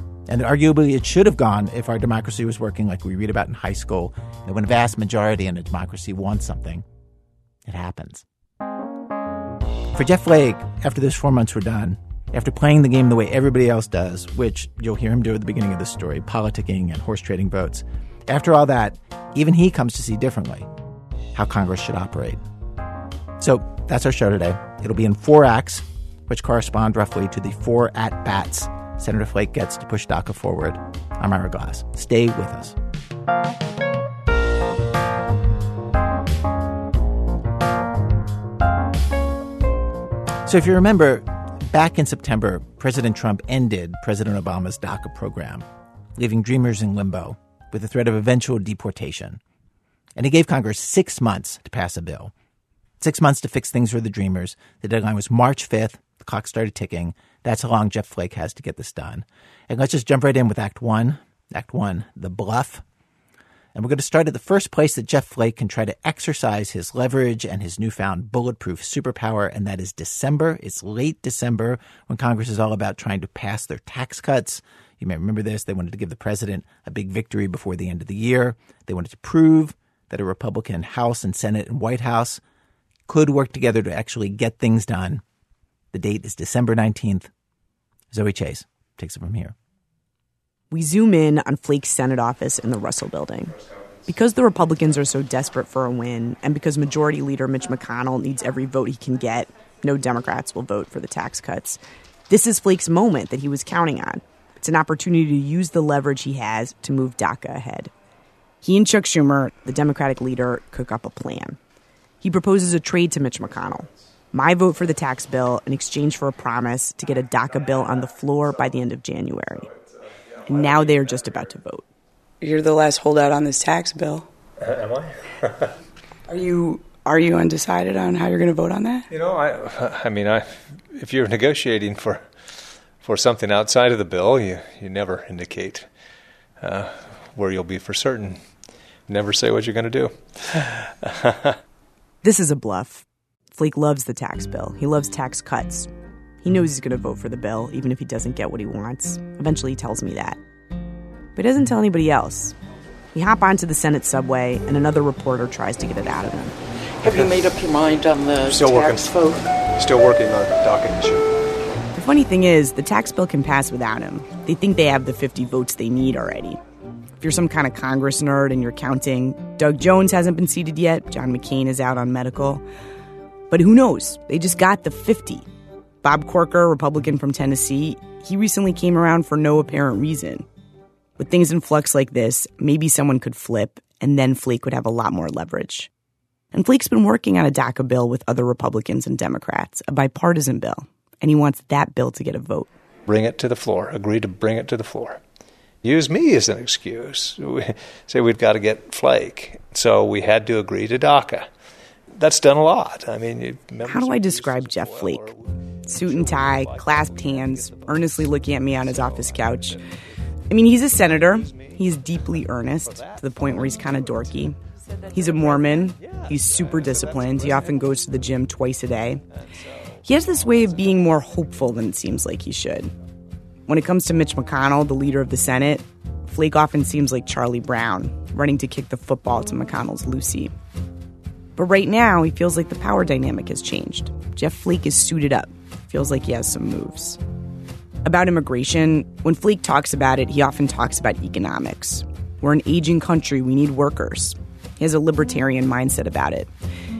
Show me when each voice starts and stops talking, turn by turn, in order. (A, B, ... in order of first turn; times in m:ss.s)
0:00.3-0:06.8 A
0:07.6-0:08.2 A
0:09.9-0:20.7 A
0:21.3-0:22.4 A
0:23.4-0:32.8 A
0:40.4-0:49.4 A
0:50.2-0:52.3 A
0:53.0-1:02.8 A
1:03.7-1:22.4 A
1:23.1-1:25.2 A
1:25.9-1:27.3 A
1:28.1-1:29.5 A
1:30.7-1:33.5 B
1:33.5-1:34.0 C
1:34.1-1:47.9 B
1:48.6-1:51.6 B
1:52.2-1:59.7 B
1:53.6-1:53.9 C
1:57.5-1:58.8 C
1:59.4-2:01.5 C
2:00.5-2:01.8 B
2:02.4-2:04.3 D
2:04.6-2:05.7 C
2:06.3-2:09.1 D
2:09.1-2:12.2 C
2:13.0-2:15.9 C
2:16.6-2:18.4 C
2:19.1-2:21.6 C
2:22.2-2:25.9 B
2:26.4-2:30.4 B
2:31.4-2:32.5 B
2:33.1-2:36.6 B
2:37.0-2:37.5 C
2:37.0-2:39.4 E
2:38.5-2:39.1 C
2:39.7-2:41.3 C
2:41.9-2:46.6 B
2:47.2-2:52.6 B
2:53.5-2:55.5 B
2:56.0-3:00.4 B
3:01.2-3:05.9 B
3:06.5-3:12.7 B
3:13.0-3:15.2 C
3:15.8-3:21.5 C
3:22.1-3:30.1 C
3:23.8-3:25.3 B
3:25.9-3:29.8 B
3:30.5-3:34.6 B
3:30.8-3:34.4 C
3:34.8-3:35.9 D
3:35.1-3:39.2 B
3:35.4-3:38.0 C
3:39.3-3:41.5 C
3:40.0-3:42.9 B
3:43.7-3:50.5 B
3:51.6-3:57.2 B
3:58.0-4:06.5 B